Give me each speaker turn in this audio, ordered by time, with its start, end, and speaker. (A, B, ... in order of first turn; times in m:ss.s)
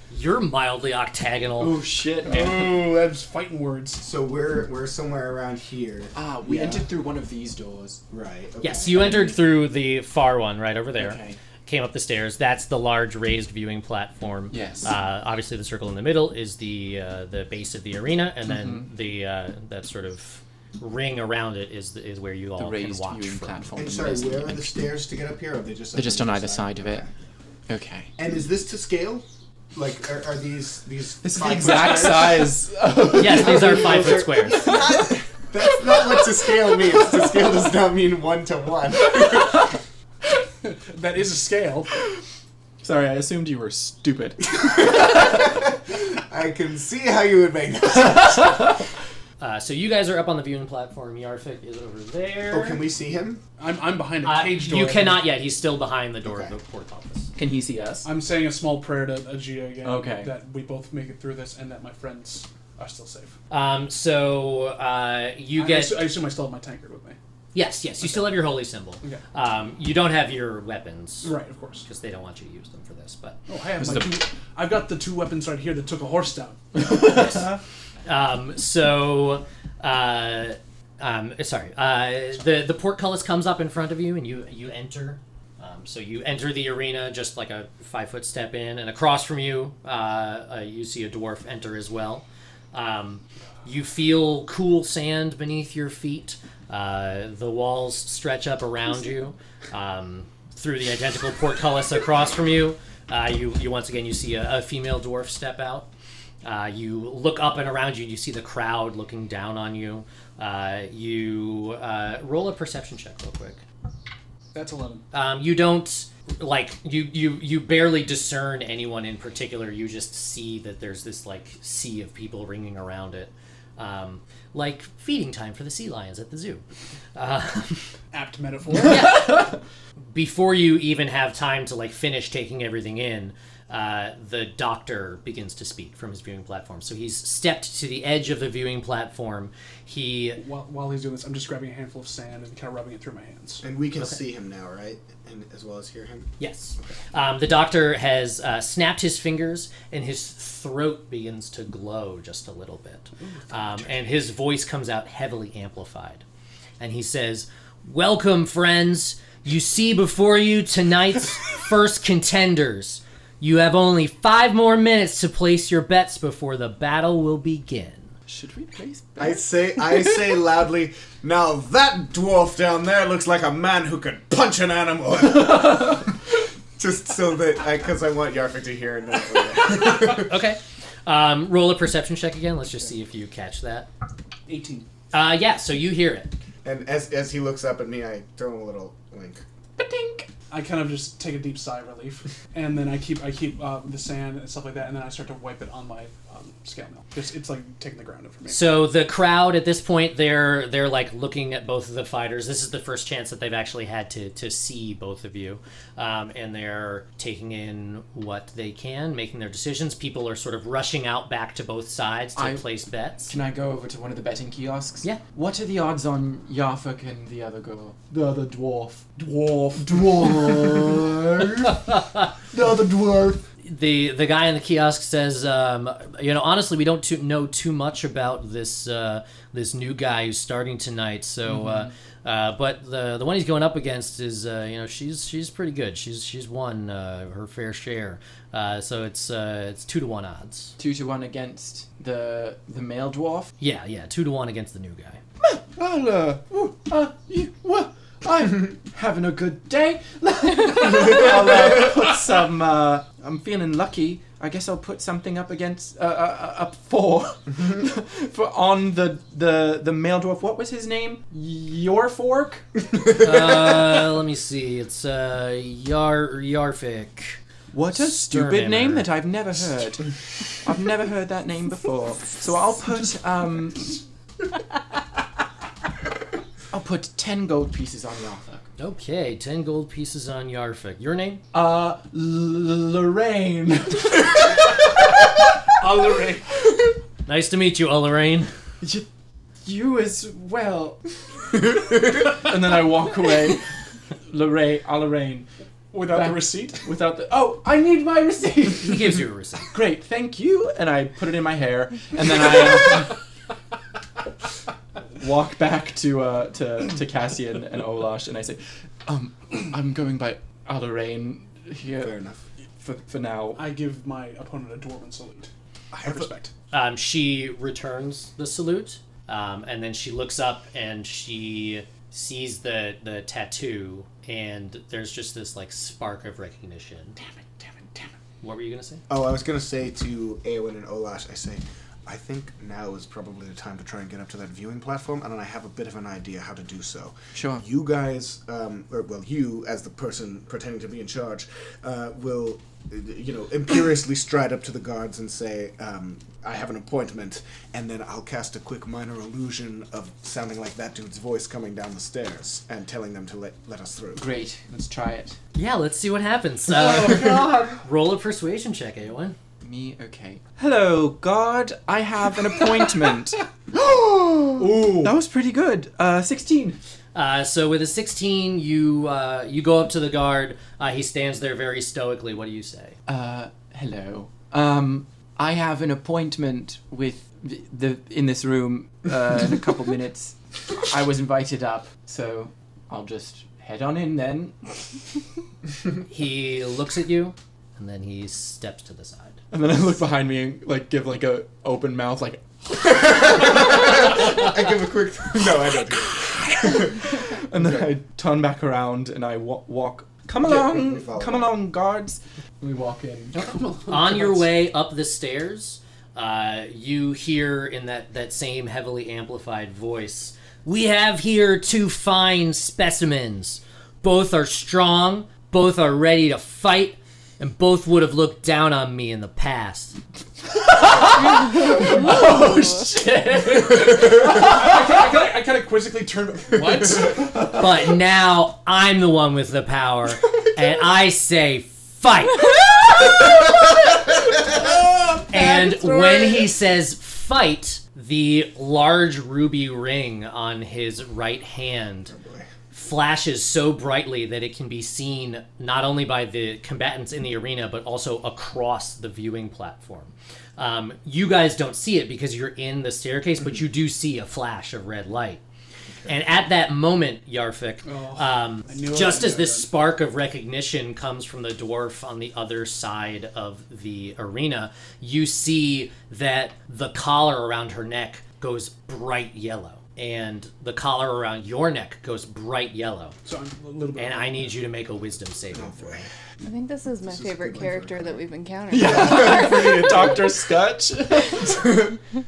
0:00.1-0:01.8 A
0:01.6-0:02.8 B
0:02.3-0:04.0 C
0:04.0-0:06.9 D
0:06.1-0:08.0 B
0:08.1-0:09.2 D
0:08.6-0:23.7 A
0:08.9-0:09.4 B
0:11.0-0:11.4 B
0:14.5-0:14.9 B
0:18.4-0:18.9 B
0:22.6-0:24.8 B
0:23.8-0:27.1 D
0:25.9-0:27.0 B
0:27.7-0:28.1 B
0:28.2-0:32.6 D
0:31.2-0:35.0 B
0:33.1-0:34.8 A
0:33.1-0:39.7 D
0:40.6-0:41.9 C
0:42.8-0:45.4 B
0:44.5-0:48.8 D
0:49.4-0:52.8 A
0:52.5-0:53.4 D
0:53.6-0:55.2 C
0:54.2-0:57.3 A
0:56.2-0:56.5 D
0:57.4-0:58.1 B
0:58.0-1:03.4 C
0:59.8-1:00.3 B
1:03.5-1:06.0 A
1:05.6-1:07.2 C
1:07.5-1:11.3 A
1:11.2-1:11.8 C
1:11.8-1:13.4 A
1:13.5-1:17.3 C
1:13.8-1:14.1 B
1:18.0-1:45.9 A
1:46.4-1:53.6 A
1:54.5-1:55.0 C
1:55.1-2:06.6 A
2:07.1-2:07.9 A
2:08.1-2:09.1 C
2:08.8-2:09.5 A
2:10.1-2:20.4 A
2:20.4-2:23.6 C
2:23.6-2:26.3 D
2:26.4-2:36.2 A
2:33.2-2:34.2 C
2:36.8-2:48.1 A
2:48.3-2:50.0 B
2:49.2-2:56.2 D
2:56.8-3:00.3 D
3:00.0-3:03.9 A
3:04.5-3:04.9 C
3:05.1-3:06.3 A
3:06.6-3:09.4 D
3:09.8-3:10.3 B
3:10.5-3:18.7 C
3:18.5-3:33.4 A
3:32.4-3:32.7 B
3:33.3-3:41.8 B
3:42.5-3:43.4 B
3:43.6-4:00.7 A
3:51.5-3:51.9 B
4:00.8-4:03.5 B
4:03.6-4:05.2 A
4:05.4-4:22.7 B
4:23.2-4:27.4 A
4:27.7-4:34.0 B
4:27.9-4:29.1 A
4:36.7-4:38.7 B
4:38.8-4:41.4 A
4:41.5-4:44.7 B
4:45.8-4:46.5 C
4:47.2-4:48.5 A
4:48.8-4:49.1 B
4:49.6-4:55.5 B
4:55.9-4:56.9 C
4:56.0-5:03.2 B
4:58.8-4:59.7 A
5:05.2-5:12.2 B
5:12.0-5:12.4 D
5:12.8-5:13.6 B
5:13.6-5:15.5 C
5:15.9-5:16.5 D
5:16.1-5:16.3 C
5:16.7-5:27.2 A
5:28.4-5:29.0 A
5:29.1-5:54.2 D
5:37.3-5:37.6 B
5:54.2-5:55.4 B
5:55.5-5:59.4 A
5:56.8-5:57.8 B
5:59.6-6:06.8 B
6:07.1-6:13.0 A
6:13.1-6:25.0 B
6:26.1-6:29.4 A
6:29.5-6:34.1 B
6:32.8-6:36.9 D
6:36.1-6:43.6 B
6:37.6-6:37.9 D
6:40.4-6:41.5 D
6:43.4-6:44.4 C
6:43.9-7:00.0 A
7:00.4-7:04.8 B
7:03.4-7:07.3 C
7:07.5-7:12.6 A
7:15.1-7:22.1 A
7:22.1-7:22.5 D
7:22.7-7:35.4 A
7:36.1-7:53.2 A
7:37.8-7:39.7 C
7:53.2-7:54.6 C
7:54.0-7:56.0 A
7:55.5-7:56.1 D
7:56.4-8:00.2 E
7:57.0-7:58.2 D
7:58.7-8:01.8 B
7:58.8-7:59.5 D